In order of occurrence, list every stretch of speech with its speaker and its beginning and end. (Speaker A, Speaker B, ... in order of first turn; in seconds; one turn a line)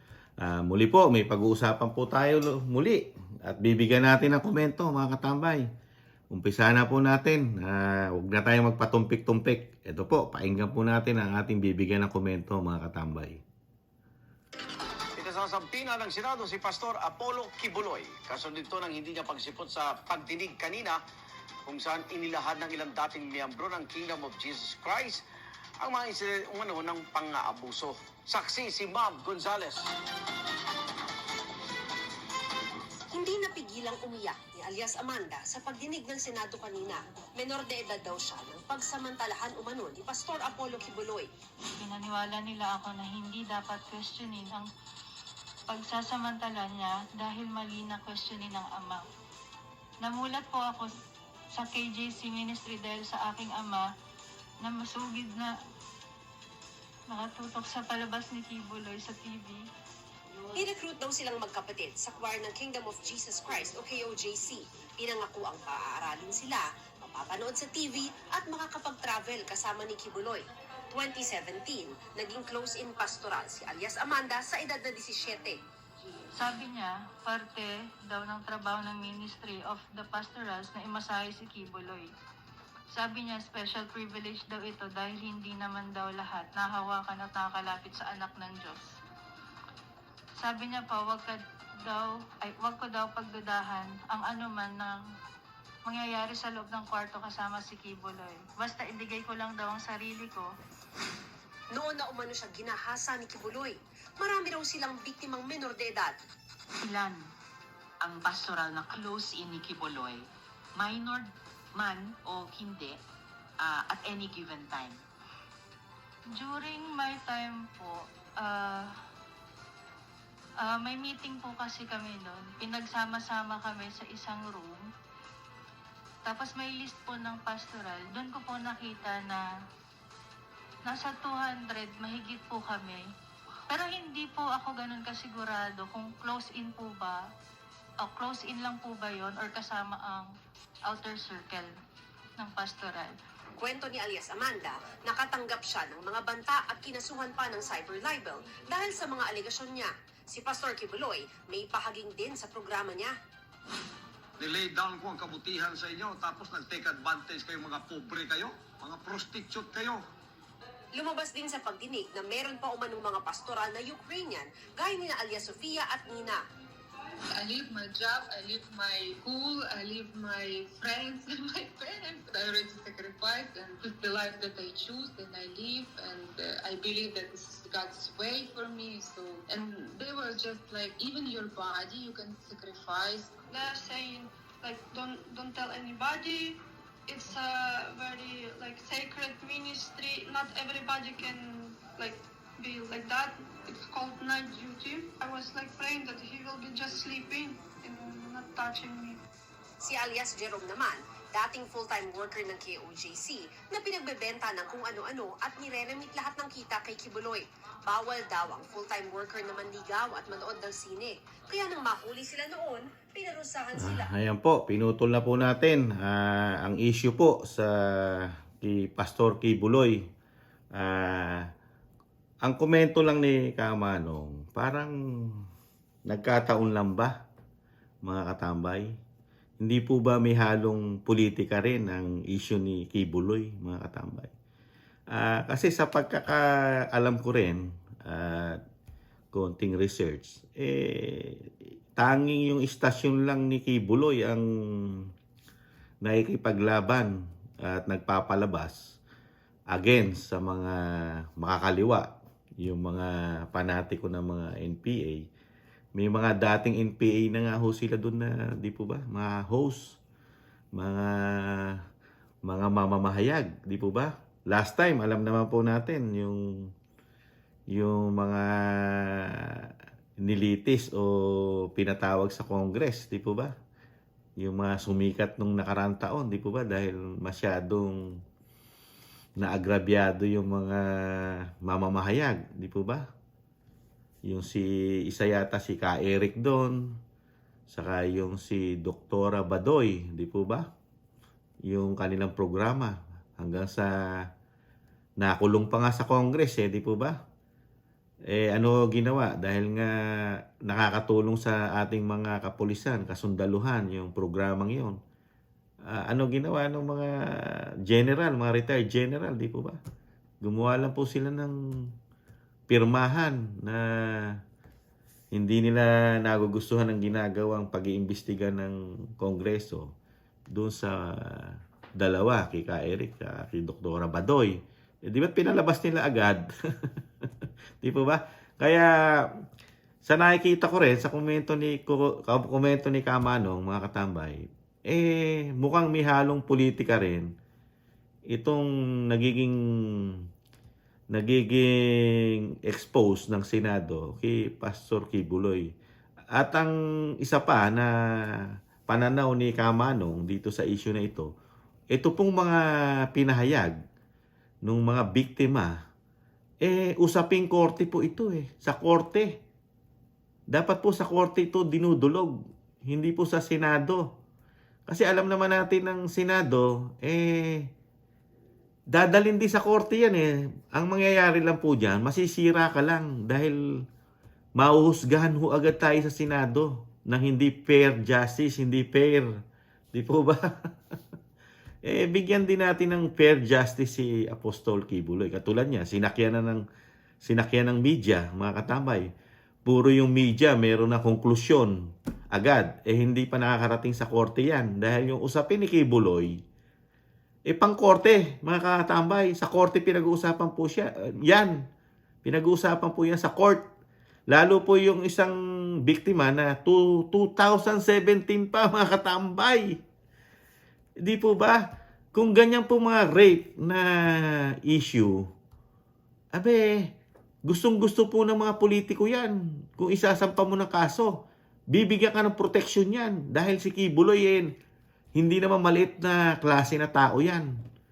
Speaker A: 0.4-5.7
Speaker A: 6.3-13.4
Speaker B: 15.2-21.0
Speaker B: 21.7-25.2
Speaker B: 25.8-29.9
Speaker C: 33.1-41.3
Speaker D: 41.8-44.7
Speaker D: 45.7-49.0
Speaker D: 50.0-50.9
Speaker D: 51.6-53.9
Speaker D: 54.6-55.5
Speaker D: 57.1-59.6
Speaker C: 60.5-75.6
Speaker D: 76.4-82.1
Speaker D: 82.9-88.9
Speaker D: 90.4-95.0
Speaker D: 95.9-100.5
Speaker C: 101.7-106.2
Speaker E: 106.8-107.3
Speaker E: 108.0-113.0
Speaker E: 113.6-115.0
Speaker D: 116.4-119.0
Speaker D: 120.6-124.8
Speaker D: 126.2-129.4
Speaker D: 130.9-133.1
Speaker D: 133.7-137.2
Speaker D: 138.0-140.3
Speaker D: 140.9-141.7
Speaker D: 142.4-143.2
Speaker C: 143.6-153.1
Speaker F: 154.4-160.0
Speaker C: 161.0-166.4
Speaker G: 167.3-183.3
Speaker H: 183.5-199.2
Speaker C: 199.8-214.1
Speaker A: 213.8-220.0
Speaker A: 220.8-221.5
Speaker A: 222.4-224.9
Speaker A: 226.1-227.1
Speaker A: 228.1-228.9
Speaker A: 229.6-234.3
Speaker A: 235.1-238.6
Speaker A: 239.3-241.5
Speaker A: 242.0-244.4
Speaker A: 246.0-247.1
Speaker A: 247.6-248.8
Speaker A: 249.7-250.8
Speaker A: 251.4-252.1
Speaker A: 252.6-255.2
Speaker A: 256.0-260.0
Speaker A: 260.8-261.8
Speaker A: 262.5-266.4
Speaker A: 267.7-269.5
Speaker A: 270.2-273.5
Speaker A: 274.4-278.0
Speaker A: 279.4-283.0
Speaker A: 284.3-286.8
Speaker A: 287.7-290.7
Speaker A: 291.7-293.9
Speaker A: 295.2-297.2
Speaker A: 298.3-299.9
Speaker A: 300.6-305.0
Speaker A: 305.9-309.8
Speaker A: 310.4-311.6
Speaker A: 312.7-314.3
Speaker A: 315.3-319.9
Speaker A: 320.5-326.5
Speaker A: 327.8-328.9
Speaker A: 330.0-337.3
Speaker A: 338.3-339.6
Speaker A: 341.1-341.7
Speaker A: 342.6-345.7
Speaker A: 346.4-346.7
Speaker A: 347.2-347.9
Speaker A: 348.9-351.3
Speaker A: 351.9-352.6
Speaker A: 353.1-353.8
Speaker A: 354.7-355.7
Speaker A: 356.6-359.3
Speaker A: 360.5-362.3
Speaker A: 362.9-364.0
Speaker A: 364.9-367.7
Speaker A: 368.9-373.6
Speaker A: 374.6-379.3
Speaker A: 379.9-380.4
Speaker A: 381.9-386.6
Speaker A: 387.2-389.1
Speaker A: 389.7-391.8
Speaker A: 392.3-396.4
Speaker A: 397.5-401.6
Speaker A: 402.2-403.6
Speaker A: 404.3-405.4
Speaker A: 405.9-409.8
Speaker A: 411.1-411.6
Speaker A: 412.1-415.2
Speaker A: 416.4-416.9
Speaker A: 417.5-421.1
Speaker A: 421.7-424.5
Speaker A: 425.2-427.5